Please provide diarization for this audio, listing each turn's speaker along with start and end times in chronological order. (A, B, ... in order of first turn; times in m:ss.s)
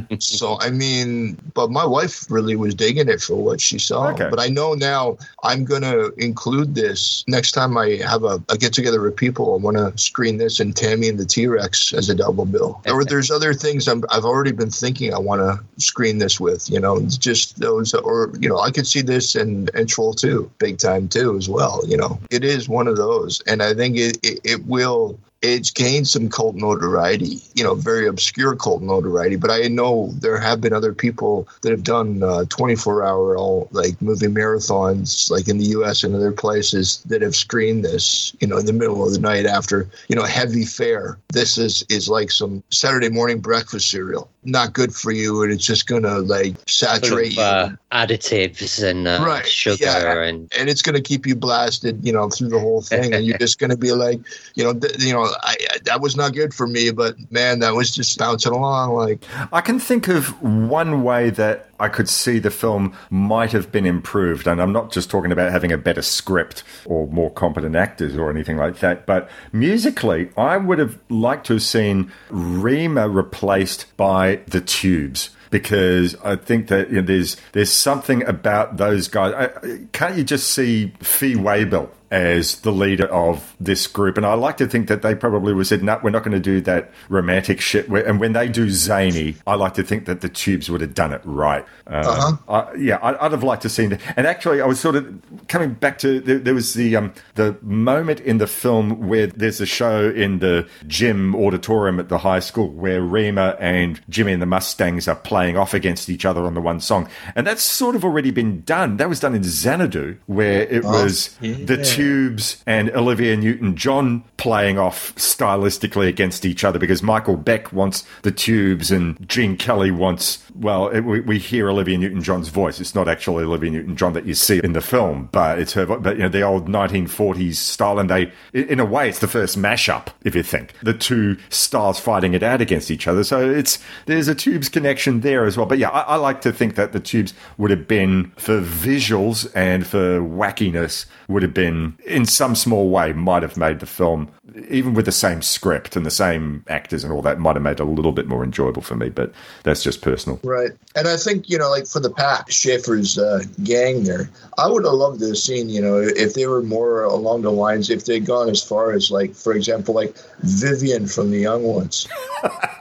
0:00.2-0:47.7 A
0:04.0-0:04.4 B
0:12.9-0:13.1 C
0:47.0-0:50.5 C
0:49.2-0:59.2 A
0:53.0-0:53.2 C
0:59.4-2:30.4 B
1:32.0-1:32.4 A
1:50.8-1:51.1 A
2:30.4-2:42.1 A